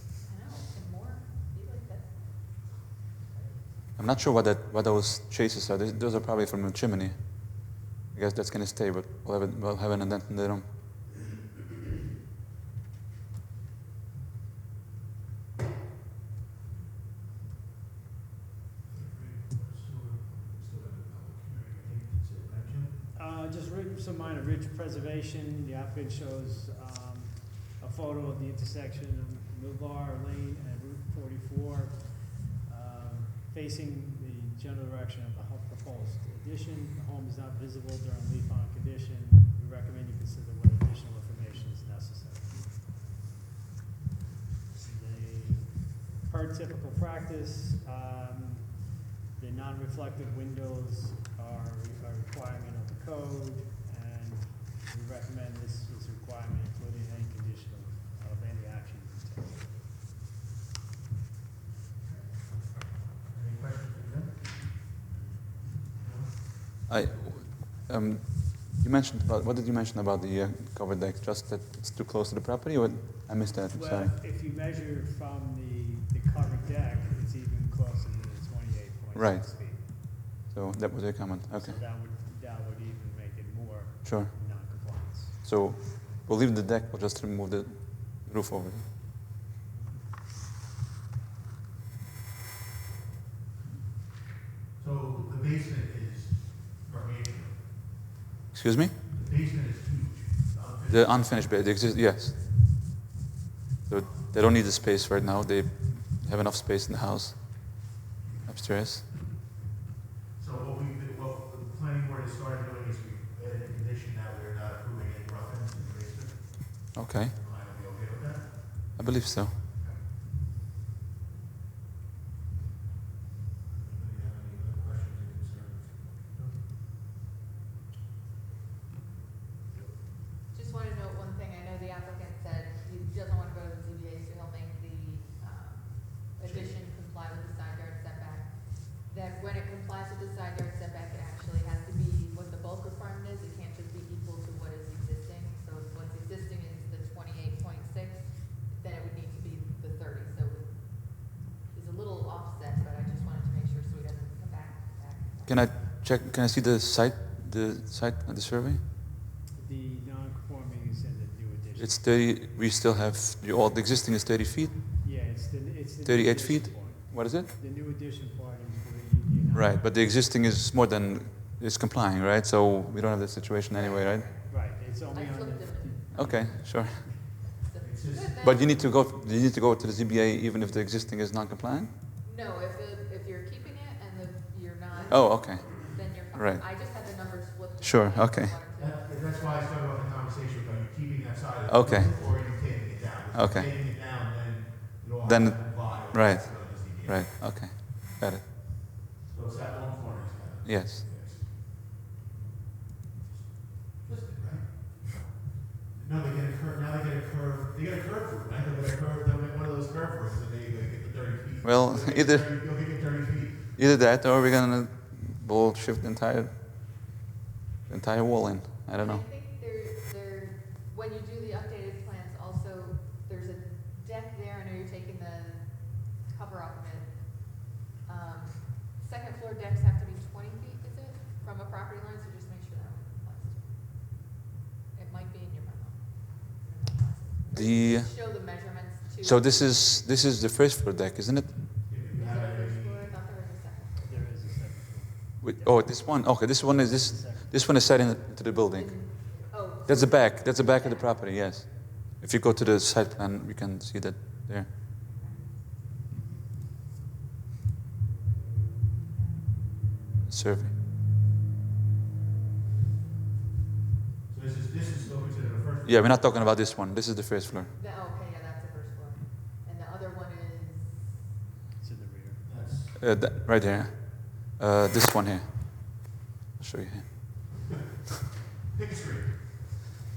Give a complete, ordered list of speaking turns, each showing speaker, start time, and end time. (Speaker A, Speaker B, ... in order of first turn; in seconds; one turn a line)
Speaker A: 0.2-2.7
Speaker A: 3.3-3.5
Speaker B: 4.0-10.7
Speaker C: 18.8-22.9
Speaker D: 23.1-42.9
Speaker D: 44.7-59.8
Speaker C: 62.0-64.9
Speaker C: 65.7-66.5
Speaker B: 66.9-74.1
Speaker D: 73.7-79.8
Speaker B: 79.1-81.8
Speaker D: 81.5-85.4
Speaker B: 84.0-88.9
Speaker C: 94.8-98.0
Speaker B: 98.5-98.9
Speaker C: 99.0-101.6
Speaker B: 100.9-102.4
Speaker B: 103.9-107.9
Speaker B: 108.5-109.1
Speaker C: 110.4-118.9
Speaker B: 116.9-117.3
Speaker B: 119.0-119.5
Speaker C: 119.7-120.0
Speaker C: 123.7-126.6
Speaker A: 130.5-155.8
Speaker C: 136.4-136.8
Speaker B: 155.5-158.8
Speaker D: 159.5-162.1
Speaker B: 161.8-164.9
Speaker D: 165.0-169.9
Speaker B: 166.0-167.5
Speaker B: 169.5-174.3
Speaker A: 173.7-178.8
Speaker D: 174.4-176.7
Speaker B: 176.1-177.4
Speaker C: 177.8-178.7
Speaker B: 178.4-181.9
Speaker A: 182.2-189.2
Speaker B: 185.1-186.7
Speaker B: 187.8-188.6
Speaker C: 188.8-197.4
Speaker B: 191.7-192.1
Speaker B: 193.3-193.7
Speaker B: 195.2-198.5
Speaker C: 199.2-201.6
Speaker B: 200.6-201.0
Speaker C: 203.2-205.3
Speaker C: 205.9-213.7
Speaker B: 211.6-212.6
Speaker B: 213.8-216.5
Speaker B: 217.9-219.2
Speaker A: 218.9-233.7
Speaker A: 234.9-239.8
Speaker B: 237.5-238.2
Speaker B: 239.2-241.9
Speaker C: 241.9-243.1
Speaker A: 242.1-244.3
Speaker D: 244.0-247.8
Speaker B: 245.4-249.3
Speaker A: 248.7-251.3
Speaker B: 249.8-254.7
Speaker A: 255.0-255.6
Speaker A: 259.1-259.5
Speaker B: 260.3-260.7
Speaker C: 264.3-266.5
Speaker B: 265.8-267.7
Speaker A: 267.7-271.2
Speaker D: 271.8-272.4
Speaker C: 272.4-273.0
Speaker B: 273.0-277.6
Speaker C: 278.7-279.5